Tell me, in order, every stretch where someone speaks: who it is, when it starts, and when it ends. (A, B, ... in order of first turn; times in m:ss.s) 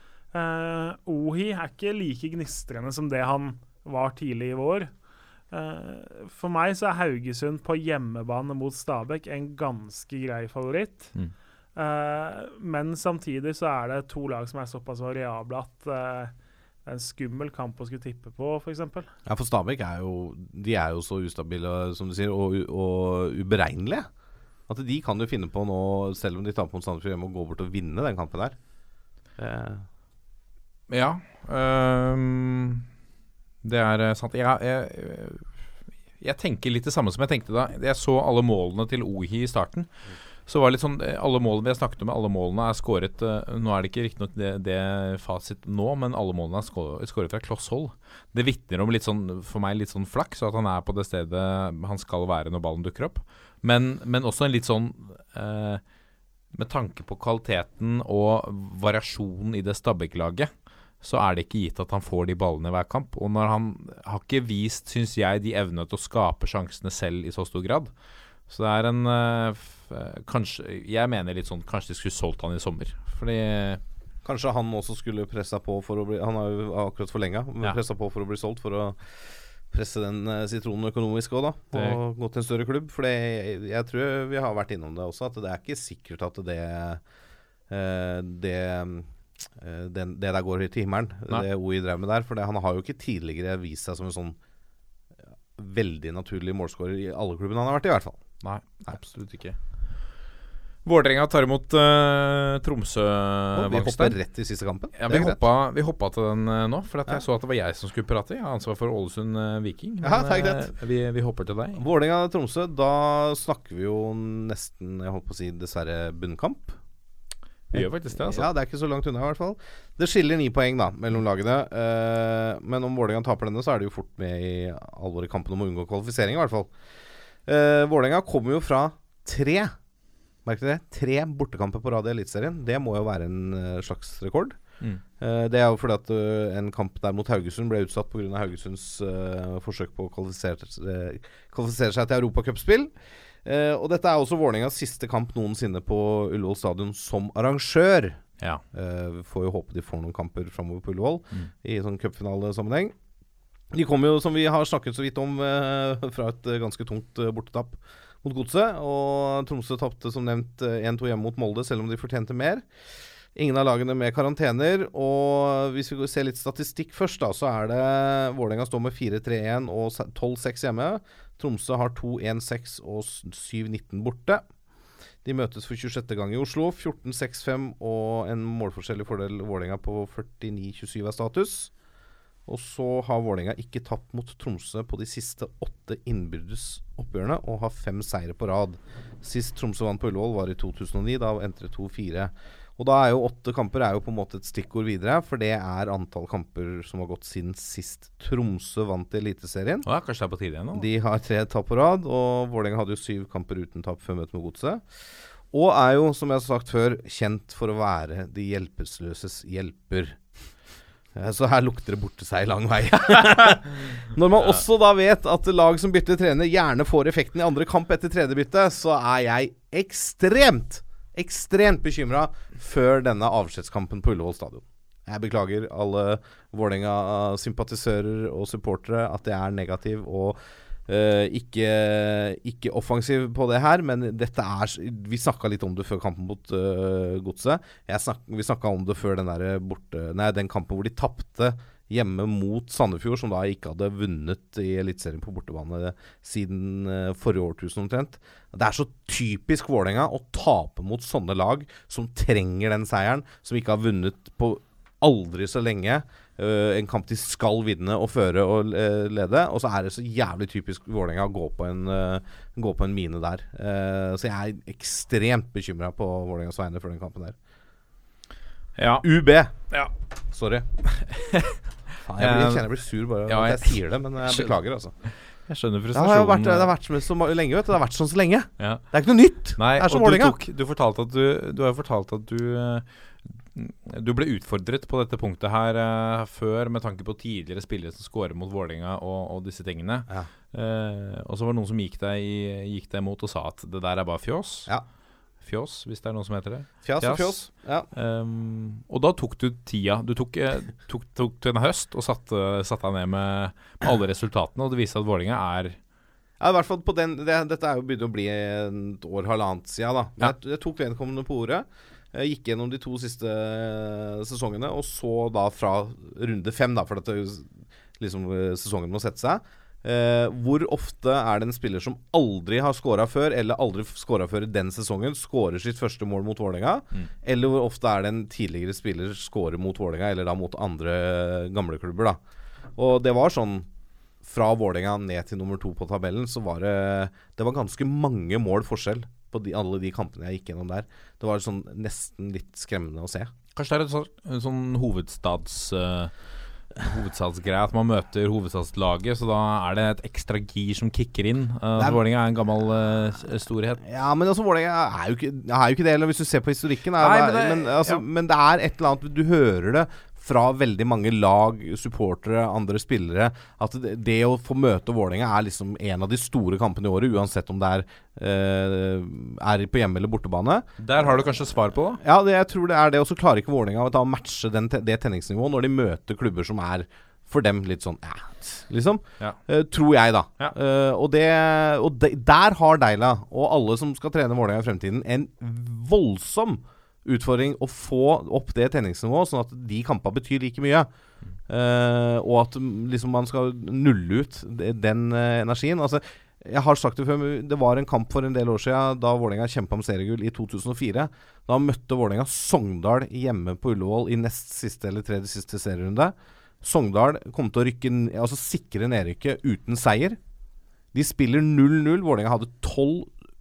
0:00.3-0:04.9 A
0:05.5-0:11.2 A
0:11.8-0:16.3 A
0:16.8-0:19.1 A
0:19.3-0:24.1 B
0:24.7-0:28.6 B
0:29.4-0:29.9 B
0:30.9-0:32.8 C
0:33.6-0:35.6 C
0:36.2-0:39.9 C
0:40.5-0:55.8 C
0:56.5-1:00.5 C
1:01.0-1:07.9 C
1:08.5-1:13.8 C
1:14.2-1:27.0 B
1:21.7-1:22.0 C
1:27.7-1:34.4 B
1:35.6-1:38.2 B
1:38.4-1:39.6 C
1:40.8-1:44.2 C
1:43.6-1:45.4 B
1:45.0-1:51.8 C
1:50.0-1:50.7 B
1:51.7-1:56.8 B
1:57.7-1:58.5 C
1:57.7-2:06.7 B
2:07.5-2:09.8 B
2:10.4-2:14.6 B
2:15.2-2:28.2 B
2:28.7-2:32.9 B
2:33.7-2:42.7 B
2:43.4-2:54.4 B
2:55.2-3:01.7 B
3:02.5-3:19.9 B
3:19.8-3:20.9 C
3:20.7-3:24.8 B
3:25.5-3:30.2 B
3:31.2-4:27.4 B
4:28.8-4:29.1 C
4:29.0-4:29.6 B
4:30.3-4:30.7 B
4:31.0-4:31.6 C
4:32.0-4:35.0 B
4:32.2-4:32.7 C
4:33.3-4:34.5 C
4:35.0-4:36.7 C
4:35.9-4:40.4 B
4:38.6-4:38.9 C
4:39.6-4:54.7 C
4:55.4-5:05.8 C
4:56.8-4:57.9 B
5:06.4-5:32.2 B
5:32.8-5:33.7 B
5:34.2-5:43.3 B
5:43.6-5:46.1 C
5:46.8-5:53.8 C
5:53.8-6:10.7 B
5:57.0-5:58.0 C
6:10.8-6:12.0 C
6:12.0-6:30.9 B
6:31.5-6:50.2 B
6:50.9-6:53.1 B